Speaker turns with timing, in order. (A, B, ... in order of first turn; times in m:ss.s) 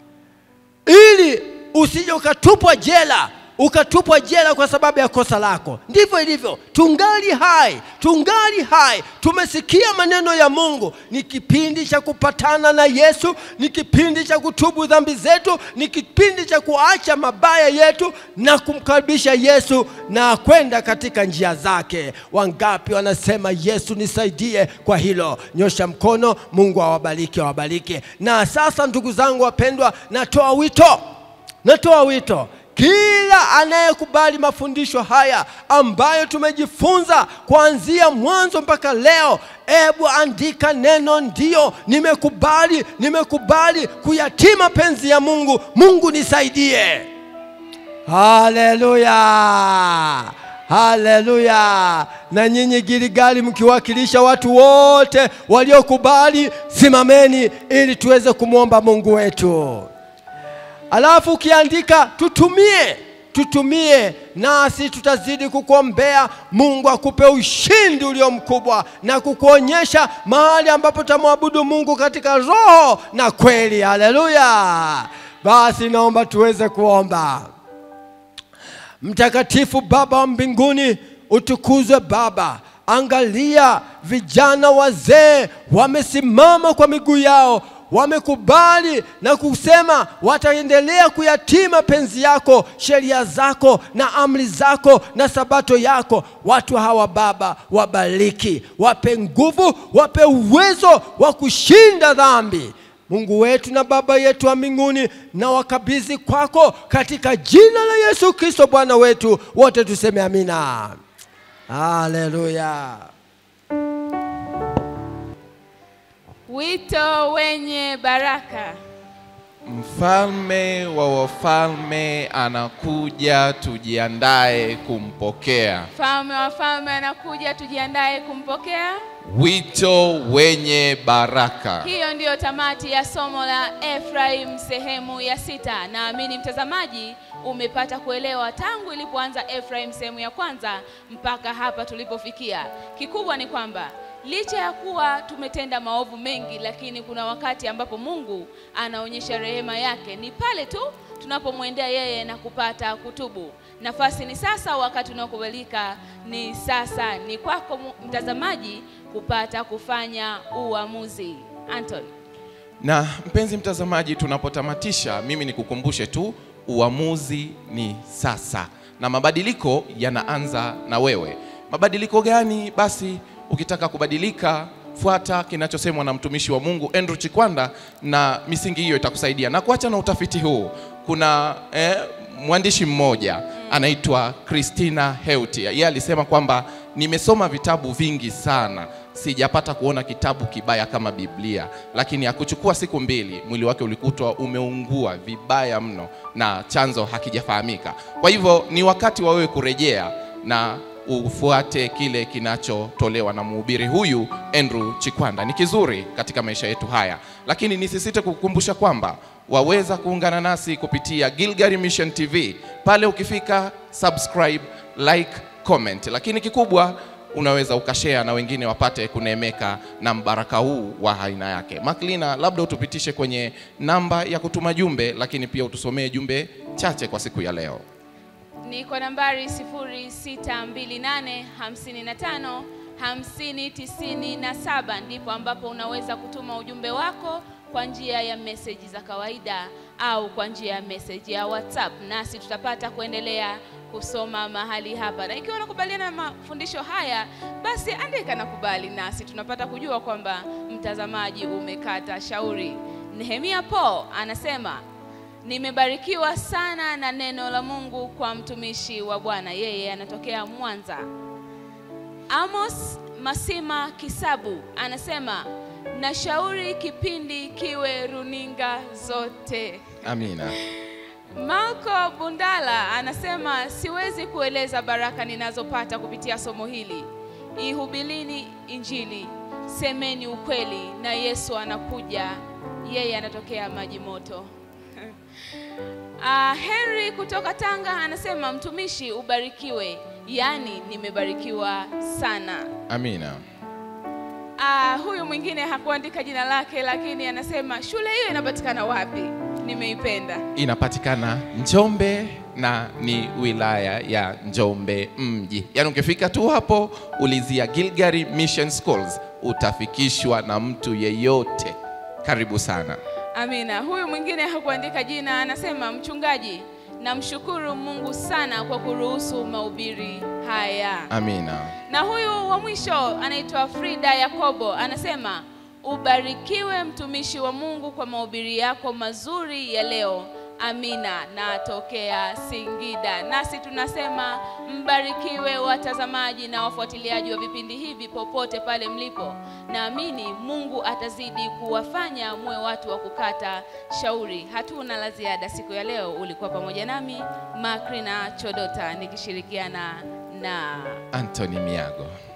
0:00.9-0:31.0 A
0:31.6-0:47.1 A
0:48.1-0:59.9 A
1:00.9-1:17.5 A
1:19.0-1:51.0 A
1:51.7-1:53.1 A
1:56.5-1:58.8 B
1:59.7-2:05.9 C
2:05.9-2:09.0 B
2:09.2-2:11.9 C
2:11.8-2:42.1 B
2:42.8-3:47.8 C
3:48.6-4:14.8 B
4:15.4-4:21.0 B
4:22.3-4:29.9 B
4:30.0-4:30.6 C
4:31.4-4:37.1 B
4:37.6-4:44.5 B
4:46.2-4:52.7 B
4:52.9-4:53.4 C
4:54.6-5:00.4 B
5:00.6-5:13.0 C
5:13.4-5:21.1 B
5:21.1-5:21.7 C
5:21.9-5:51.0 B
5:51.1-5:52.1 C